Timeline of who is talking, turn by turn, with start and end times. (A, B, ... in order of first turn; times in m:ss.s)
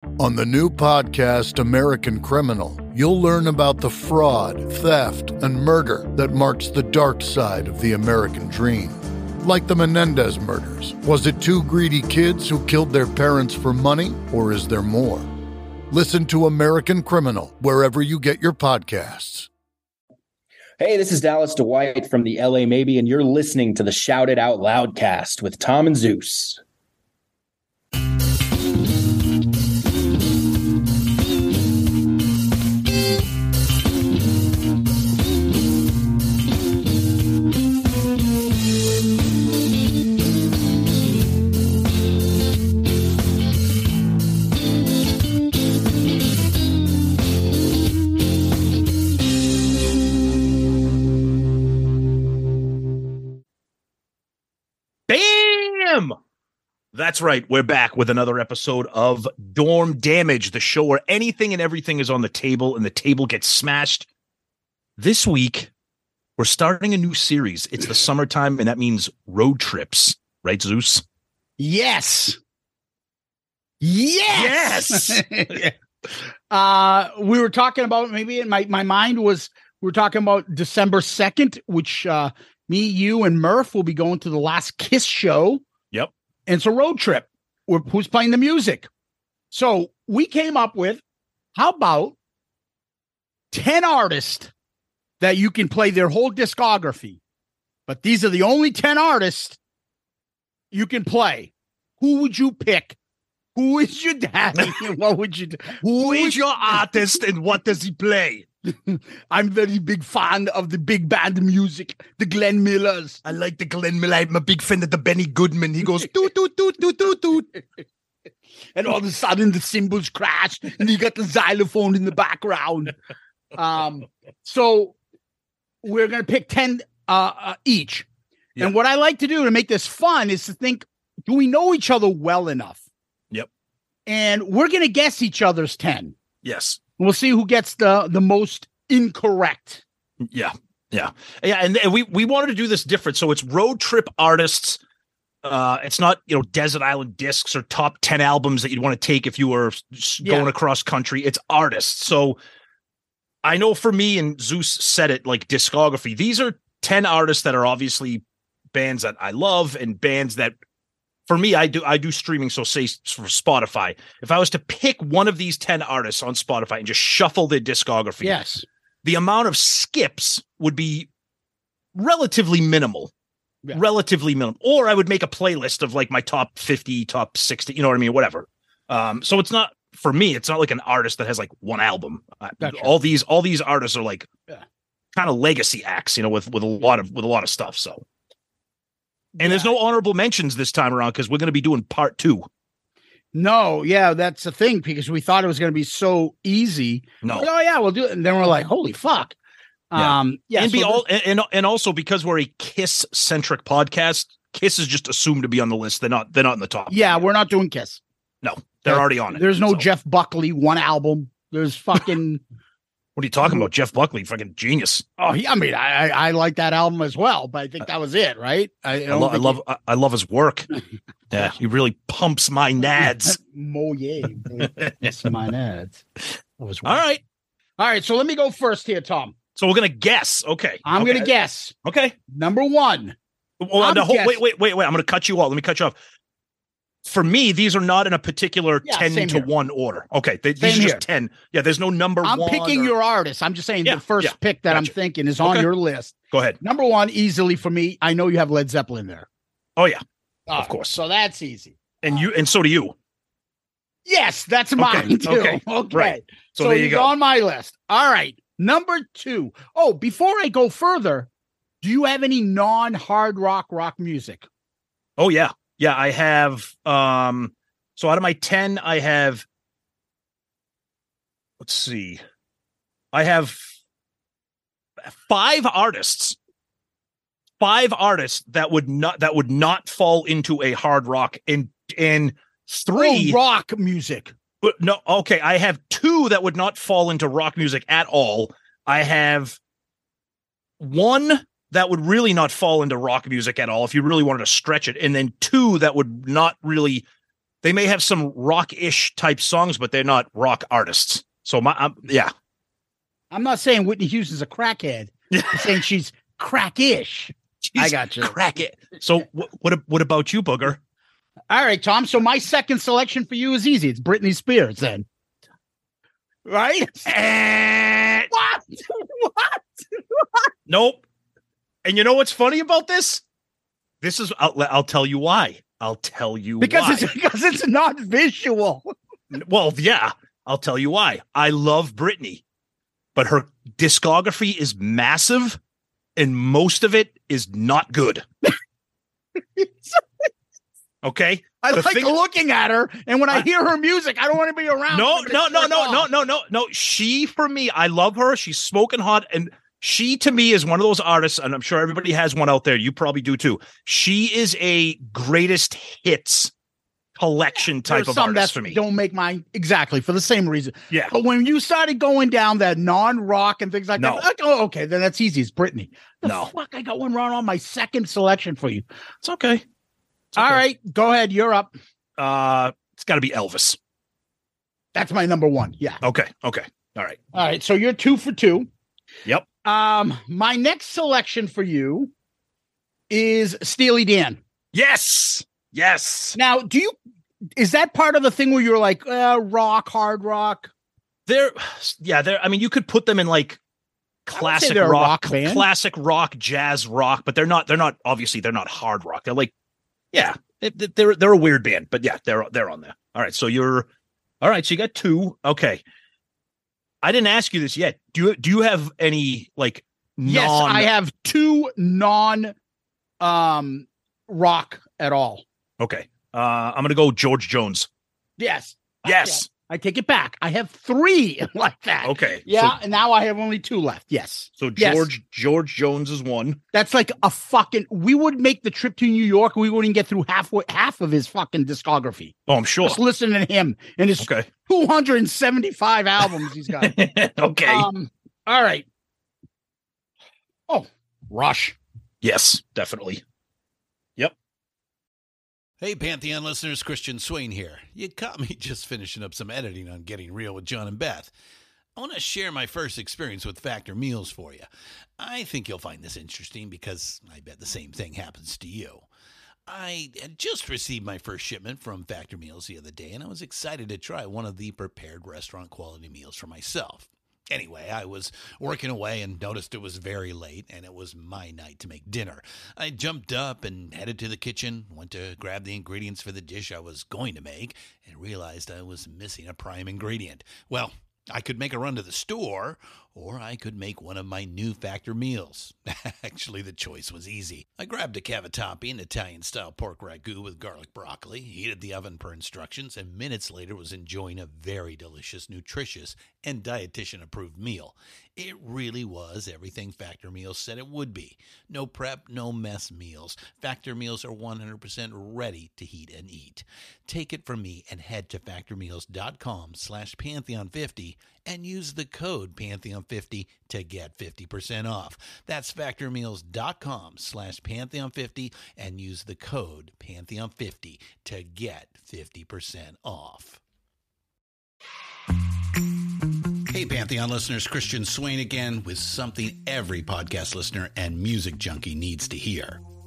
0:00.2-0:15.3 A
0:15.9-0:19.5 A
0:20.8-0:26.6 B
0:55.1-0:56.2 C
0:56.9-1:04.1 C
1:05.0-1:05.7 C
1:06.4-1:11.0 C
1:11.6-1:12.4 D
1:13.8-1:15.8 D
1:14.3-1:15.2 C
1:16.5-1:25.6 D
1:26.5-1:28.9 D
1:29.5-1:31.0 D
1:31.6-1:32.2 D
1:33.5-1:34.5 D
1:35.2-1:37.2 D
1:37.9-1:39.6 D
1:40.7-1:43.0 D
1:43.6-1:46.8 D
1:45.8-1:48.5 C
1:48.7-1:53.2 D
1:53.2-1:57.6 C
1:58.8-2:02.9 D
2:03.6-2:05.0 D
2:05.8-2:08.1 D
2:08.6-2:12.8 D
2:14.1-2:16.2 D
2:16.4-2:16.8 C
2:17.0-2:19.8 D
2:20.3-2:24.8 C
2:25.4-2:32.4 C
2:30.2-2:30.5 D
2:33.4-2:38.2 C
2:38.7-2:40.6 C
2:41.3-2:48.4 C
2:48.2-2:48.6 D
2:49.0-2:51.1 C
2:52.0-2:53.1 C
2:53.7-3:04.3 C
3:02.6-3:02.9 D
3:05.1-3:08.0 C
3:09.4-3:09.8 D
3:09.4-3:12.5 C
3:13.3-3:19.4 D
3:17.2-3:17.5 C
3:19.9-3:21.0 D
3:20.0-3:27.2 C
3:26.9-3:28.0 D
3:28.4-3:29.8 C
3:28.9-3:32.4 D
3:33.2-3:35.0 C
3:35.2-3:39.6 D
3:39.1-3:40.7 C
3:41.3-3:43.4 C
3:42.8-3:46.0 D
3:44.6-3:45.3 C
3:46.6-3:47.0 D
3:46.8-3:47.2 C
3:47.8-3:49.3 D
3:49.6-3:51.3 C
3:50.8-3:51.7 D
3:51.8-3:52.2 C
3:52.3-3:53.2 D
3:53.6-3:56.0 C
3:53.8-3:54.4 D
3:57.0-4:02.9 C
3:58.8-3:59.5 D
4:00.6-4:01.0 D
4:02.2-4:09.3 D
4:03.9-4:04.9 C
4:06.3-4:06.6 C
4:10.5-4:12.2 D
4:10.6-4:10.9 C
4:12.0-4:13.0 C
4:14.1-4:21.3 D
4:14.8-4:17.1 C
4:21.8-4:24.5 D
4:25.2-4:29.4 C
4:31.6-4:32.2 C
4:33.1-4:33.6 C
4:35.1-4:36.4 C
4:37.6-4:43.4 C
4:42.9-4:44.3 D
4:44.6-4:49.6 C
4:50.8-4:57.0 C
4:57.6-5:02.3 C
5:03.3-5:08.3 D
5:05.3-5:05.8 C
5:07.7-5:10.8 C
5:11.5-5:15.1 D
5:16.5-5:17.7 D
5:17.4-5:18.3 C
5:18.3-5:20.3 D
5:20.7-5:21.0 C
5:21.8-5:23.2 C
5:24.0-5:27.1 C
5:26.6-5:28.9 D
5:29.3-5:32.4 C
5:33.2-5:35.6 C
5:36.2-5:38.2 C
5:41.0-5:42.2 C
5:41.6-5:46.1 D
5:44.9-5:56.5 C
5:57.2-5:58.8 C
5:57.8-6:08.9 D
6:04.0-6:04.2 C
6:06.2-6:06.5 C
6:09.2-6:09.6 C
6:10.3-6:10.6 C
6:10.4-6:11.7 D
6:12.2-6:13.8 C
6:15.0-6:16.0 D
6:16.0-6:17.2 C
6:17.3-6:18.7 D
6:19.6-6:22.1 D
6:23.1-6:24.4 D
6:24.7-6:26.4 C
6:26.4-6:26.9 D
6:27.6-6:30.7 D
6:31.3-6:33.6 C
6:34.3-6:39.5 C
6:34.3-6:35.7 D
6:40.1-6:43.9 C
6:44.4-6:45.8 C
6:47.0-6:50.9 C
6:50.2-6:52.5 D
6:53.2-6:55.4 D
6:55.8-6:57.9 C
6:58.4-7:05.1 D
6:59.0-6:59.5 C
7:02.0-7:02.7 C
7:04.6-7:06.6 C
7:06.7-7:17.0 D
7:12.5-7:13.0 C
7:14.2-7:14.5 C
7:16.8-7:17.9 C
7:17.6-7:18.8 D
7:20.7-7:21.8 D
7:22.2-7:23.2 C
7:25.8-7:31.3 E
7:32.0-7:34.7 E
7:35.2-7:39.1 E
7:39.7-8:43.6 E
8:46.7-8:52.8 E